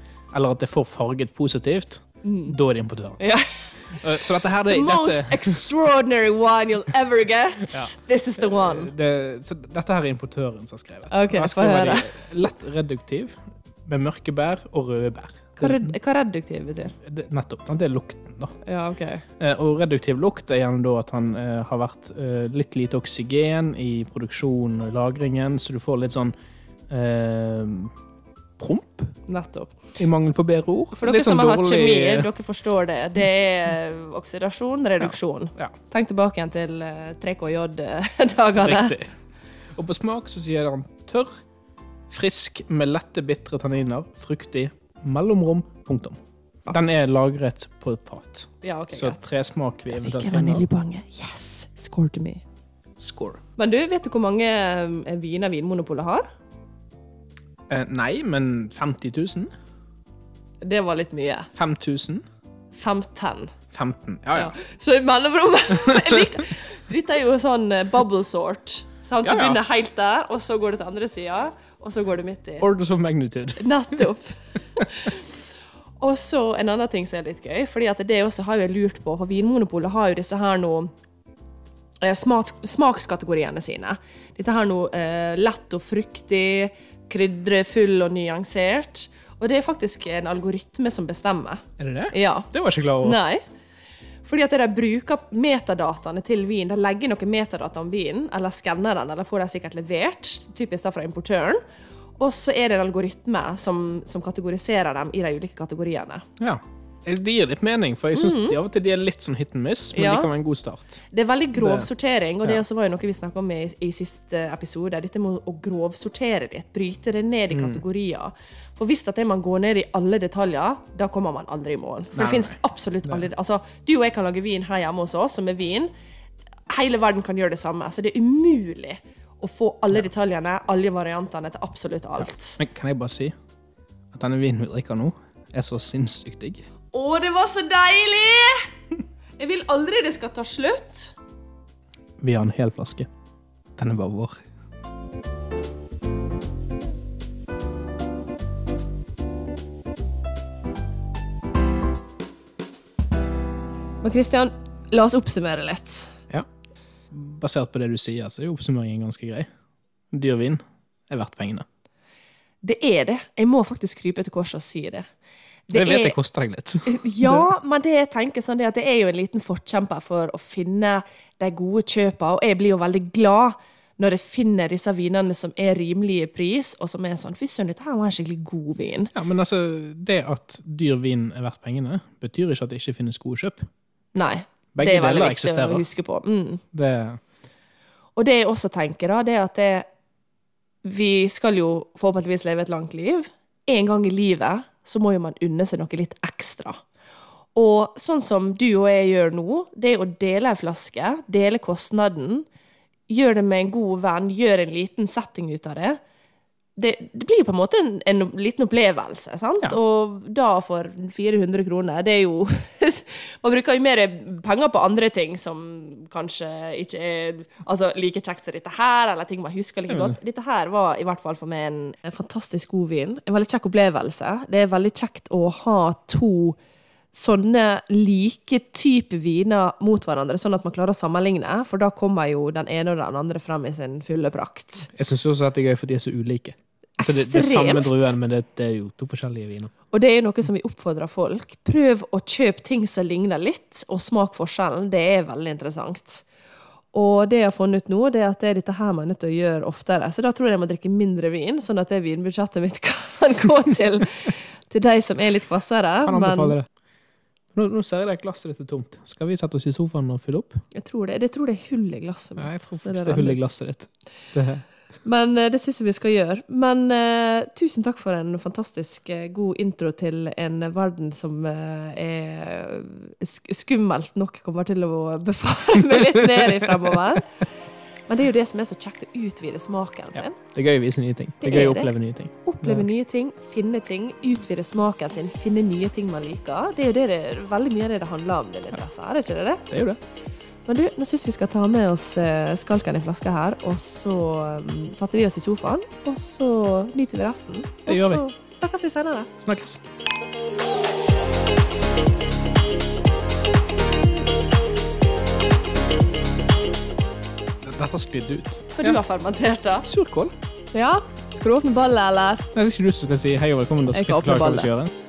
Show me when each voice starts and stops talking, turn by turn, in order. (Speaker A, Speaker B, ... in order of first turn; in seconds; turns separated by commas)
Speaker A: 0.3-3.2, Speaker B: 2.2-2.6, Speaker B: 3.2-3.9, Speaker A: 3.9-5.6, Speaker B: 4.7-8.9, Speaker A: 7.7-15.9, Speaker B: 11.1-12.2, Speaker B: 15.6-17.0, Speaker A: 17.0-18.6, Speaker B: 18.6-19.2, Speaker A: 19.4-26.3, Speaker A: 26.9-27.9, Speaker A: 28.6-29.2, Speaker B: 29.3-29.8, Speaker A: 30.0-32.3, Speaker B: 31.0-39.0, Speaker A: 35.0-35.7, Speaker A: 38.6-39.1, Speaker A: 39.8-41.3, Speaker A: 42.1-50.7, Speaker B: 48.6-49.3, Speaker B: 49.9-52.4, Speaker A: 53.0-53.4, Speaker B: 53.6-56.3, Speaker A: 57.7-59.5, Speaker B: 60.6-61.5, Speaker A: 61.6-62.2, Speaker B: 62.7-63.5, Speaker A: 63.7-64.6, Speaker B: 64.3-72.7, Speaker A: 69.2-69.6, Speaker A: 72.6-74.0, Speaker B: 73.6-75.3, Speaker B: 76.0-80.9, Speaker B: 82.0-92.5, Speaker A: 91.8-93.2, Speaker B: 93.0-93.4, Speaker B: 94.3-101.6, Speaker B: 102.2-106.2, Speaker A: 106.4-111.0, Speaker B: 108.1-108.6, Speaker B: 109.9-110.3, Speaker B: 111.1-125.9, Speaker A: 111.5-111.9, Speaker A: 117.5-117.8, Speaker A: 122.2-123.3, Speaker B: 126.7-132.6, Speaker A: 132.6-133.3, Speaker A: 134.1-136.6, Speaker B: 136.9-138.7, Speaker B: 139.4-141.2, Speaker A: 142.2-143.1, Speaker A: 143.8-144.4, Speaker B: 154.0-156.1, Speaker A: 157.1-159.5, Speaker A: 160.1-161.7, Speaker B: 162.6-165.1, Speaker B: 165.7-166.2, Speaker A: 165.7-167.5, Speaker B: 166.9-179.1, Speaker A: 179.2-183.6, Speaker B: 184.1-186.6, Speaker A: 184.8-185.9, Speaker A: 186.7-187.2, Speaker B: 188.2-189.9, Speaker B: 190.8-196.8, Speaker B: 197.6-202.4, Speaker B: 203.1-206.0, Speaker B: 206.8-226.6, Speaker A: 219.9-220.2, Speaker B: 227.1-234.9, Speaker A: 234.9-239.7, Speaker B: 237.0-238.1, Speaker B: 239.9-246.3, Speaker B: 246.9-256.6, Speaker A: 256.0-256.7, Speaker A: 257.6-260.6, Speaker B: 260.7-263.4, Speaker A: 262.4-264.6, Speaker B: 265.0-277.4, Speaker A: 275.9-277.0, Speaker B: 278.1-280.4, Speaker A: 280.2-282.9, Speaker B: 281.4-281.9, Speaker B: 282.4-289.6, Speaker A: 289.7-290.0, Speaker B: 290.7-299.3, Speaker A: 297.9-298.2, Speaker A: 299.4-299.8, Speaker A: 307.6-309.0, Speaker B: 308.8-309.9, Speaker A: 309.8-310.3, Speaker B: 310.7-312.5, Speaker A: 312.5-314.9, Speaker B: 313.9-314.7